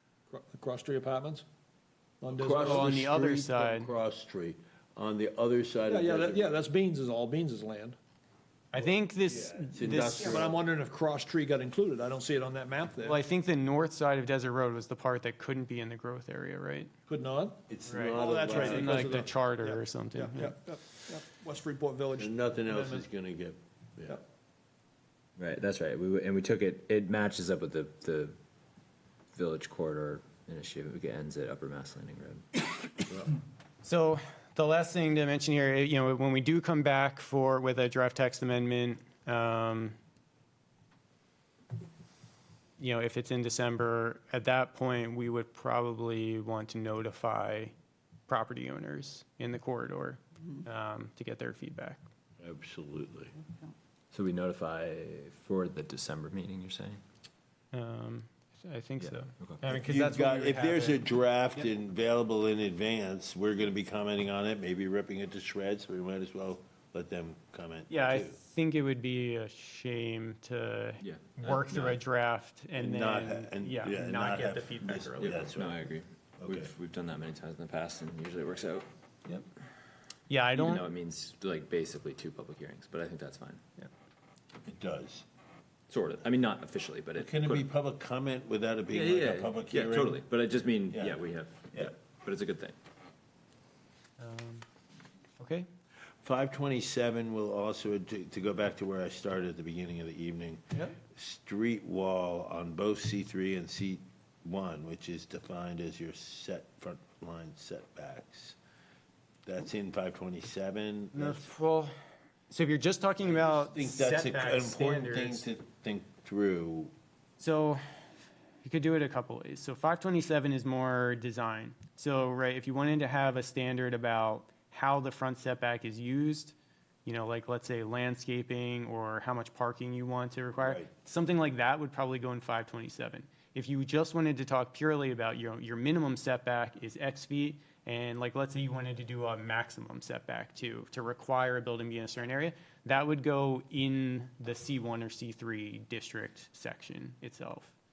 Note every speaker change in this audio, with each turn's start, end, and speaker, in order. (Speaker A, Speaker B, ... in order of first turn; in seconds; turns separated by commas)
Speaker A: 0.3-1.4, Speaker A: 2.2-3.0, Speaker B: 2.3-6.6, Speaker C: 2.6-3.9, Speaker A: 5.9-8.0, Speaker C: 8.7-10.5, Speaker B: 9.3-10.6, Speaker A: 10.2-13.2, Speaker C: 13.0-16.9, Speaker A: 17.1-23.0, Speaker B: 17.7-19.2, Speaker C: 17.8-20.6, Speaker B: 22.1-24.2, Speaker D: 25.4-28.4, Speaker D: 29.3-32.5, Speaker C: 33.8-40.0, Speaker C: 42.8-47.7, Speaker C: 48.3-52.0, Speaker B: 52.4-53.3, Speaker D: 54.1-57.0, Speaker C: 57.7-61.0, Speaker D: 59.0-59.6, Speaker B: 59.7-68.4, Speaker C: 67.9-75.5, Speaker D: 71.0-72.0, Speaker B: 72.7-75.8, Speaker D: 75.2-78.8, Speaker B: 76.4-76.7, Speaker C: 80.3-80.8, Speaker D: 80.5-83.6, Speaker B: 84.6-85.2, Speaker D: 85.9-87.7, Speaker B: 87.2-90.2, Speaker D: 88.9-92.8, Speaker B: 90.9-91.2, Speaker C: 94.2-94.7, Speaker C: 95.4-95.7, Speaker B: 96.2-108.6, Speaker B: 109.4-111.5, Speaker C: 111.1-111.9, Speaker C: 112.5-115.5, Speaker B: 113.2-116.9, Speaker C: 117.4-117.8, Speaker C: 118.6-147.7, Speaker B: 130.6-130.9